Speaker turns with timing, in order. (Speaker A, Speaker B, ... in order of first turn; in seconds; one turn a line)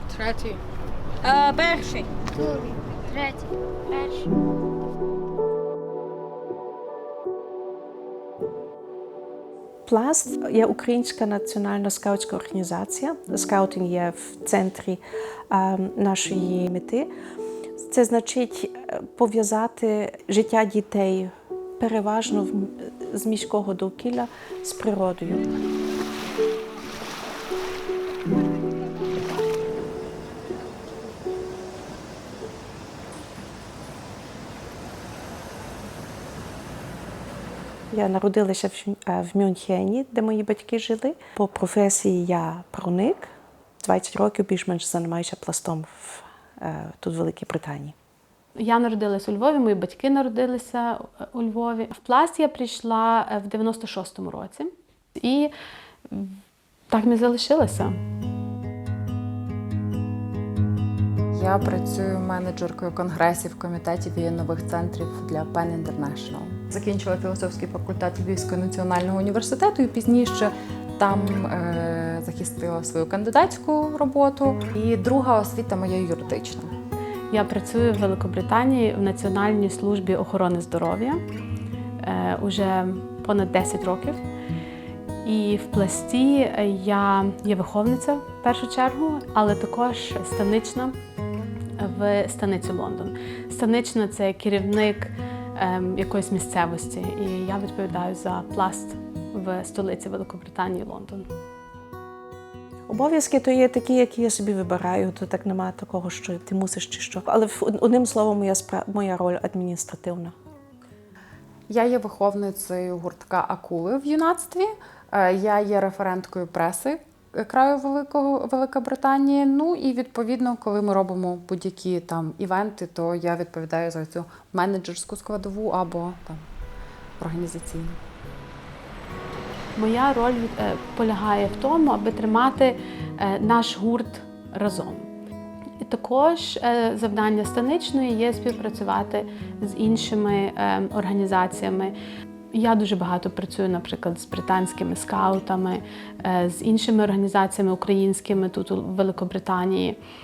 Speaker A: 9.9-17.1
Speaker A: 17.8-25.5
Speaker A: 37.9-47.9
Speaker B: 48.6-55.5
Speaker B: 56.1-56.3
Speaker B: 56.9-58.0
Speaker C: 61.3-76.7
Speaker B: 77.3-81.2
Speaker B: 82.0-84.2
Speaker B: 85.2-91.0
Speaker B: 91.8-101.3
Speaker A: 102.9-110.3
Speaker C: 111.7-126.4
Speaker C: 127.2-128.0
Speaker B: 129.8-135.1
Speaker B: 135.8-141.9
Speaker B: 142.5-150.0